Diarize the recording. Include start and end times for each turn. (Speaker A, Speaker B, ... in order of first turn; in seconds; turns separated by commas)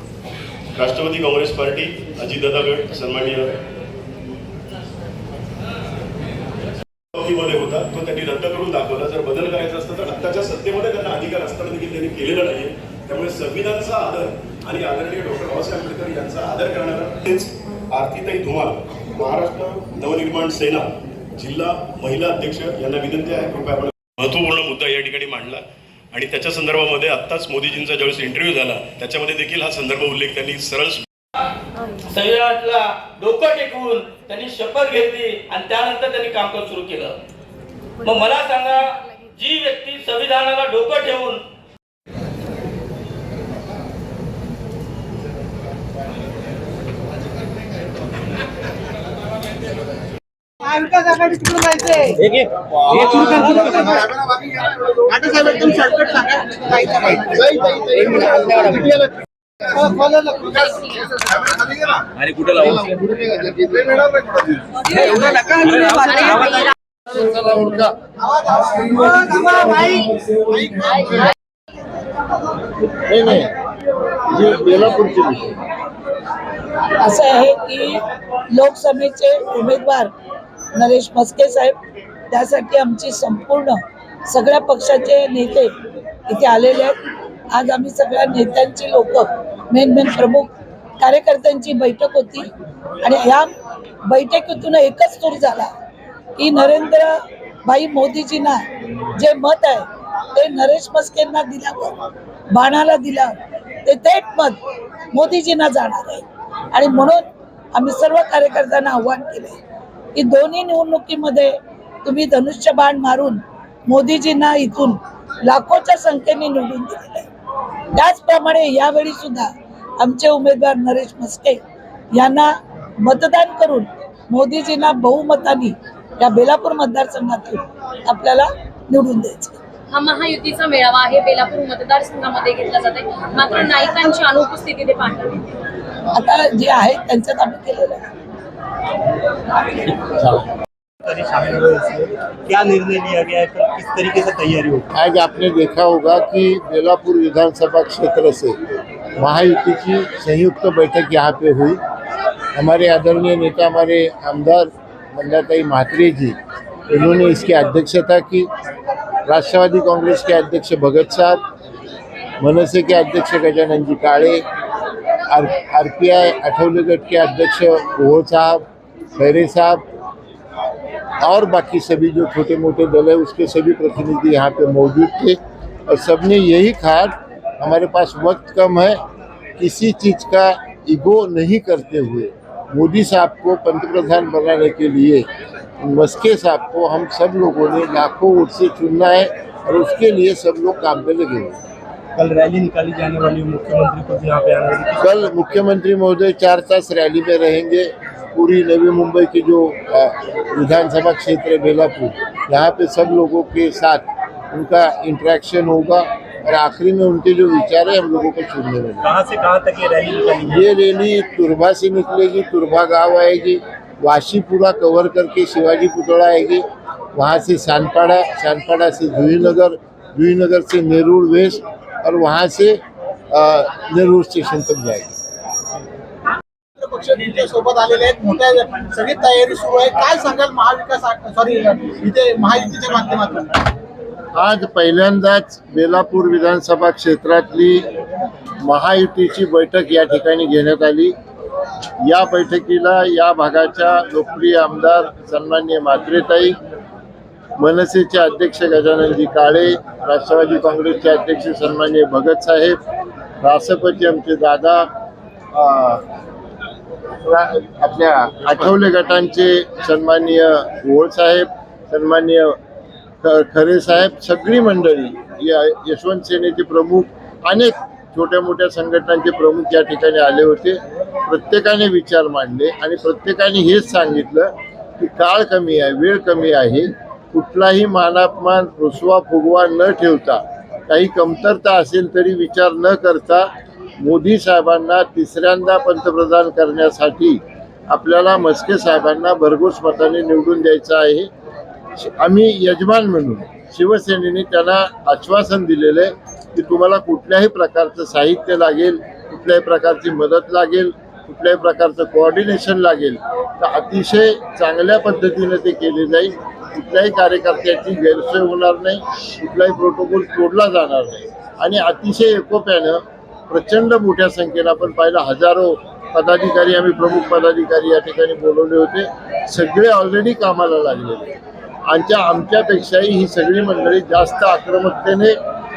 Speaker A: 0.8-3.5, Speaker A: 7.1-20.9, Speaker A: 21.4-31.1, Speaker B: 32.1-37.2, Speaker B: 38.0-41.4, Speaker C: 50.6-52.2, Speaker D: 52.2-53.1, Speaker C: 52.9-62.0, Speaker E: 53.2-53.7, Speaker D: 57.9-58.9, Speaker F: 60.5-61.1, Speaker D: 62.2-62.9, Speaker C: 63.5-64.5, Speaker F: 64.8-66.7, Speaker C: 65.2-66.5, Speaker G: 67.1-67.9, Speaker C: 68.2-71.3, Speaker G: 73.0-73.5, Speaker G: 74.3-75.6, Speaker H: 77.0-78.0, Speaker H: 78.5-80.1, Speaker H: 80.7-81.8, Speaker H: 82.3-85.7, Speaker H: 86.3-87.0, Speaker H: 87.5-92.5, Speaker H: 93.0-93.5, Speaker H: 94.0-95.7, Speaker H: 96.3-98.6, Speaker H: 99.1-102.0, Speaker H: 102.5-104.6, Speaker H: 105.1-109.6, Speaker H: 110.1-117.3, Speaker H: 117.9-121.6, Speaker H: 122.1-129.6, Speaker F: 129.9-135.4, Speaker H: 136.1-138.1, Speaker E: 141.0-144.8, Speaker G: 144.9-148.6, Speaker G: 149.2-151.8, Speaker G: 152.5-156.4, Speaker G: 156.9-158.5, Speaker G: 159.2-161.4, Speaker G: 162.4-164.4, Speaker G: 165.3-169.8, Speaker G: 171.2-179.0, Speaker G: 179.6-185.2, Speaker G: 185.8-191.6, Speaker E: 192.1-195.3, Speaker G: 195.0-209.1, Speaker E: 209.0-210.7, Speaker G: 210.4-216.6, Speaker G: 217.1-225.1, Speaker C: 226.8-233.6, Speaker G: 234.3-237.9, Speaker G: 238.6-241.1, Speaker G: 242.0-246.6, Speaker G: 247.6-252.8, Speaker G: 253.4-254.9, Speaker G: 255.5-256.0, Speaker G: 257.2-262.6, Speaker G: 263.2-283.5, Speaker G: 284.0-291.3, Speaker G: 292.0-321.4, Speaker G: 321.9-325.4